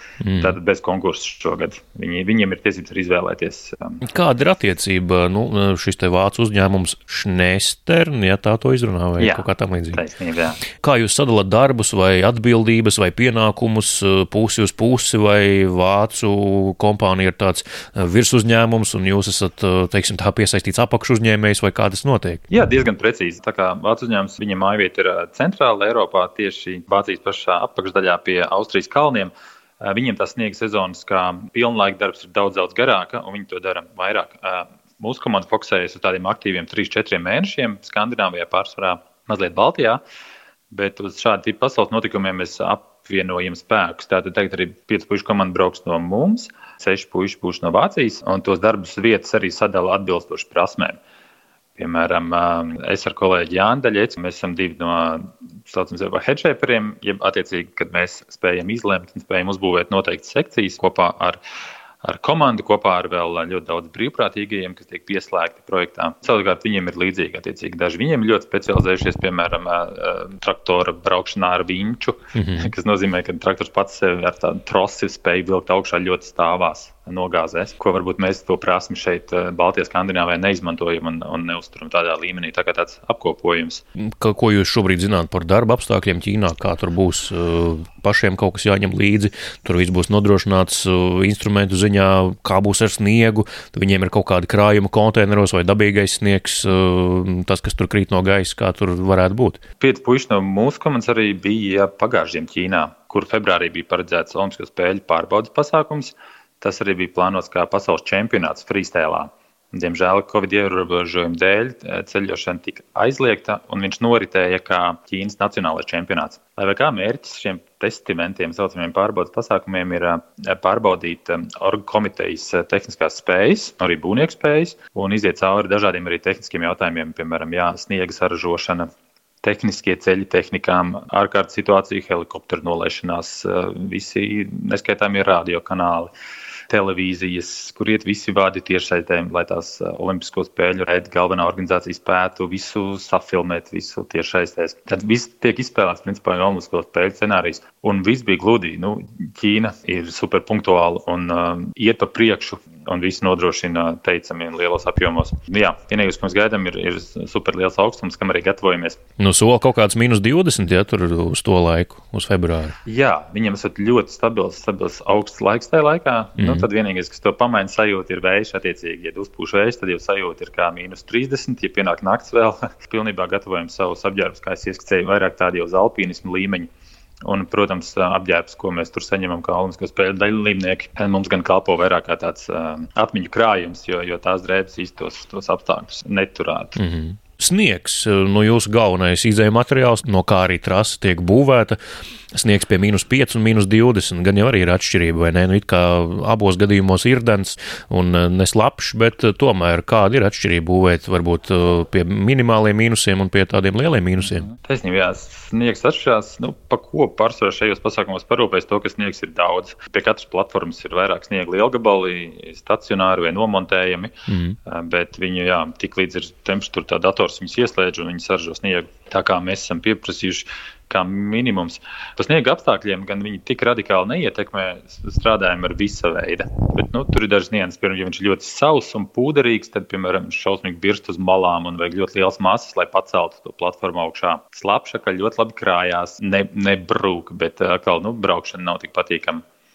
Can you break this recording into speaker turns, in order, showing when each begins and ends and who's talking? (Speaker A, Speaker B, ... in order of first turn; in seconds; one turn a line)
Speaker A: 0.2-0.6
Speaker B: 0.4-4.0
Speaker A: 4.0-10.0
Speaker B: 9.2-10.6
Speaker A: 10.8-22.4
Speaker B: 22.5-40.0
Speaker B: 40.7-51.0
Speaker B: 51.8-61.4
Speaker B: 62.0-83.8
Speaker A: 72.3-72.7
Speaker A: 84.0-99.6
Speaker B: 99.8-128.9
Speaker B: 129.4-136.1
Speaker B: 136.7-159.0
Speaker A: 159.2-162.7
Speaker B: 162.8-176.7
Speaker A: 166.4-166.7
Speaker B: 177.2-186.8
Speaker A: 186.8-191.8
Speaker A: 192.3-204.5
Speaker B: 204.5-214.1
Speaker A: 214.3-214.6
Speaker B: 214.7-239.4